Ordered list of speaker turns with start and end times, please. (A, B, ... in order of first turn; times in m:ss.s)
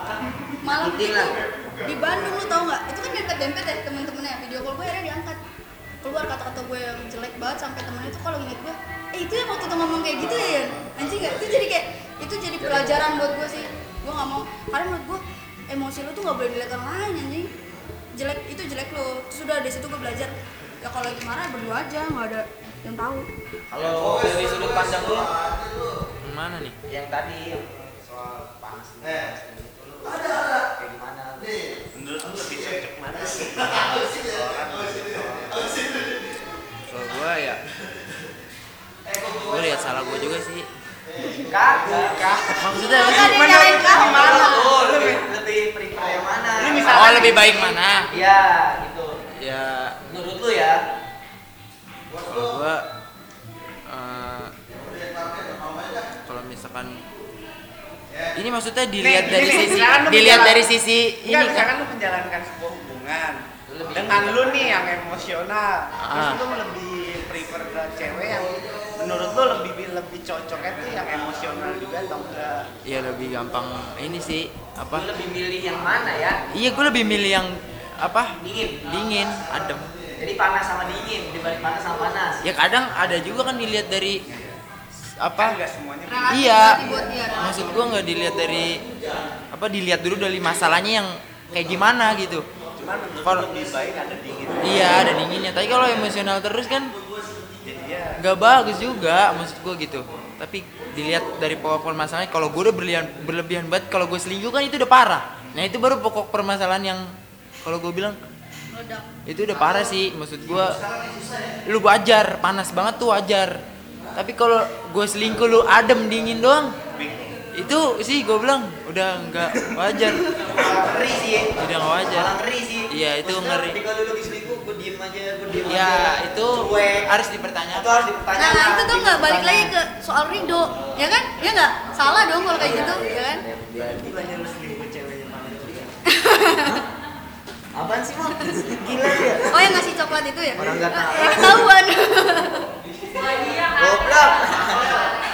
0:00.6-0:05.4 A
0:00.7-0:01.4 B
0:06.0-0:17.5 A
0:12.6-0:13.4 B
0:18.2-0:23.3 A
0:23.7-0:25.3 B
0:26.2-0:26.8 C
0:26.9-0:31.6 B
0:31.9-0:35.6 D
0:36.9-0:37.6 C
0:39.4-0:40.6 C
0:41.5-0:42.6 B
0:42.4-0:45.3 D
0:42.6-0:43.7 C
0:42.7-0:44.7 A
0:43.4-0:47.5 B
0:46.6-0:47.7 D
0:46.8-0:48.1 C
0:48.1-0:49.1 B
0:49.4-0:50.0 C
0:50.0-0:50.8 B
0:52.2-0:52.8 C
0:53.9-0:54.5 C
0:56.2-0:57.0 C
0:58.4-1:01.7 C
0:59.0-1:00.6 D
1:01.2-1:03.4 D
1:03.7-1:04.9 B
1:03.9-1:12.7 D
1:06.0-1:06.4 C
1:12.8-1:15.1 C
1:14.9-1:16.4 B
1:16.5-1:19.9 C
1:18.4-1:18.8 B
1:20.2-1:22.4 B
1:22.4-1:24.2 C
1:24.3-1:24.5 D
1:25.2-1:25.6 C
1:25.4-1:27.1 D
1:26.1-1:27.5 A
1:26.3-1:26.8 C
1:27.4-1:28.8 C
1:29.5-1:32.4 C
1:32.8-1:35.1 D
1:34.6-1:36.9 C
1:37.6-1:38.2 D
1:38.2-1:47.0 C
1:47.6-1:48.2 C
1:48.7-1:49.2 A
1:49.2-1:50.8 C
1:51.7-1:53.6 C
1:54.2-1:56.7 C
1:56.9-1:57.4 D
1:57.5-2:00.5 C
2:00.5-2:07.1 B
2:01.6-2:02.3 C
2:02.9-2:03.8 C
2:05.7-2:08.1 C
2:07.7-2:09.7 B
2:08.4-2:13.4 A
2:12.5-2:14.3 B
2:13.8-2:16.0 D
2:16.1-2:16.8 A
2:17.7-2:19.7 B
2:19.5-2:22.7 A
2:20.6-2:21.7 B
2:23.7-2:25.1 B